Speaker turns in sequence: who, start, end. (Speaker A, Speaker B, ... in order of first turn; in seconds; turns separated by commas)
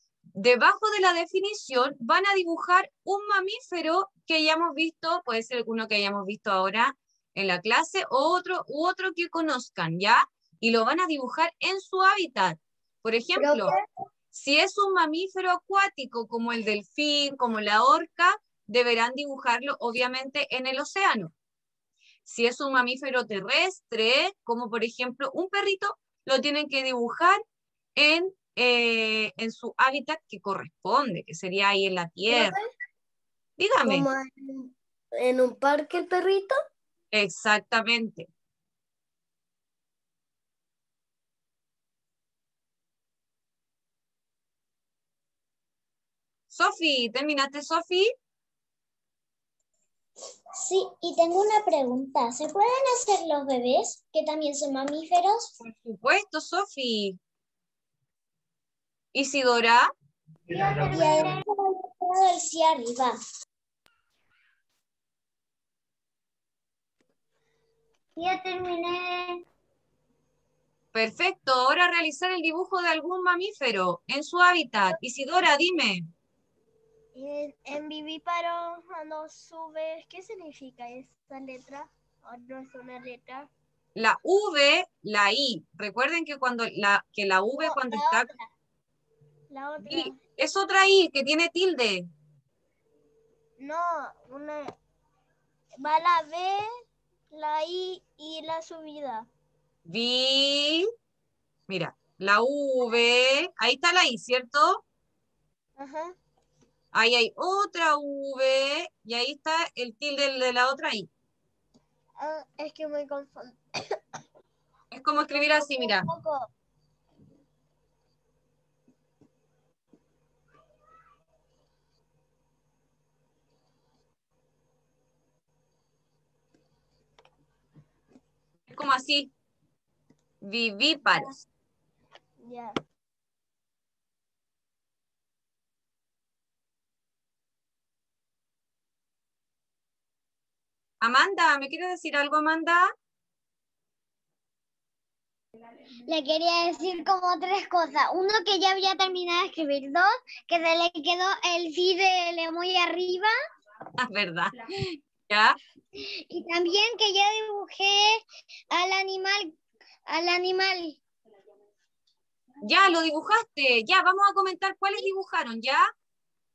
Speaker A: 0.3-13.7, Speaker B: 13.4-13.7, Speaker A: 14.3-21.3, Speaker A: 22.2-27.4, Speaker A: 27.9-32.6, Speaker B: 32.3-32.6, Speaker A: 33.6-34.1, Speaker B: 33.8-36.5, Speaker A: 37.1-38.3, Speaker A: 46.5-48.1, Speaker C: 50.6-55.5, Speaker A: 55.6-57.2, Speaker A: 59.1-59.9, Speaker C: 60.7-63.2, Speaker D: 68.2-69.4, Speaker A: 70.9-76.0, Speaker E: 77.1-83.5, Speaker A: 84.0-88.3, Speaker E: 87.6-88.5, Speaker E: 89.5-90.2, Speaker A: 89.8-92.1, Speaker E: 93.6-94.7, Speaker E: 95.8-96.7, Speaker E: 97.3-99.3, Speaker A: 99.8-100.8, Speaker A: 101.7-104.8, Speaker E: 105.8-106.2, Speaker A: 106.9-111.1, Speaker E: 112.2-114.0, Speaker A: 114.9-116.1, Speaker E: 115.3-116.5, Speaker A: 128.7-129.3, Speaker A: 130.4-131.4, Speaker E: 132.4-132.8, Speaker A: 141.0-142.9, Speaker D: 146.1-153.3, Speaker A: 154.0-155.6, Speaker D: 155.9-161.0, Speaker A: 162.6-165.9